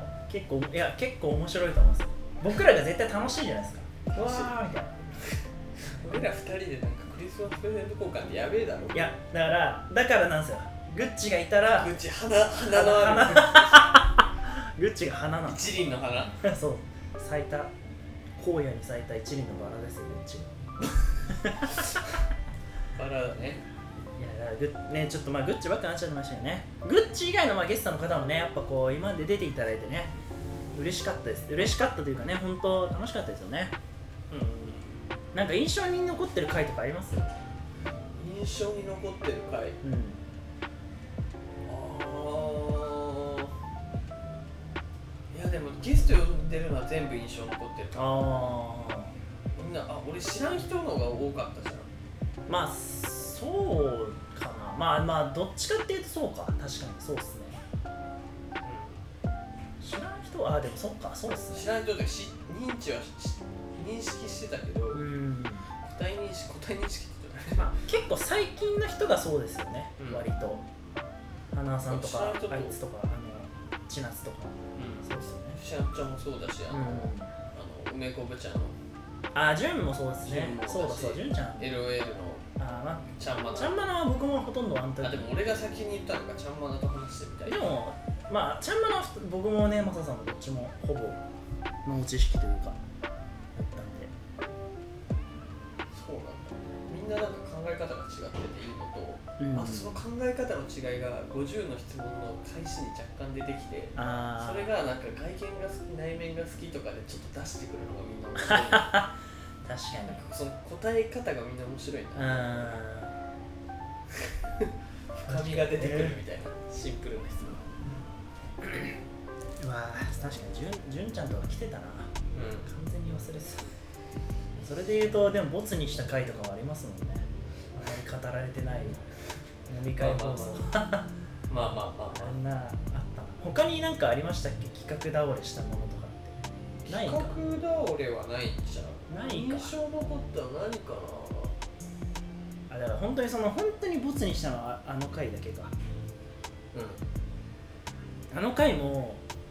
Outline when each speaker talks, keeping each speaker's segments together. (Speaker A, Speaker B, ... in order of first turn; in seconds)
Speaker A: 0.3-5.0, 8.9-11.9, 12.7-15.7, 16.4-17.7, 18.4-20.5, 21.3-21.9, 24.2-30.1, 30.7-33.7, 35.3-37.3, 39.8-40.2, 47.9-49.1, 52.5-57.6, 59.8-61.7, 64.9-65.7, 67.5-70.6, 71.5-75.6, 76.7-77.3, 79.3-81.7, 82.6-85.3, 87.5-91.2, 91.8-92.8, 93.5-94.1, 99.4-100.0, 104.0-104.7, 108.4-110.2, 112.2-113.1, 115.2-116.2, 119.6-122.1, 122.6-123.7, 124.6-129.1, 129.7-131.1, 132.1-136.4, 136.9-137.4, 139.1-139.7, 142.7-145.7, 148.3-149.2
Speaker B: 4.1-4.5, 5.9-9.1, 11.7-13.8, 15.5-16.4, 22.9-23.6, 34.3-35.0, 38.2-39.8, 41.6-43.5, 45.3-48.4, 49.5-51.9, 58.6-59.0, 61.5-65.0, 65.8-67.7, 70.0-70.2, 71.9-72.8, 74.7-78.8, 80.2-82.5, 83.2-83.8, 85.0-87.7, 95.9-109.0, 110.0-112.8, 114.1-117.7, 122.3-122.7, 130.0-130.7, 131.5-132.3, 136.8-141.6, 146.7-147.0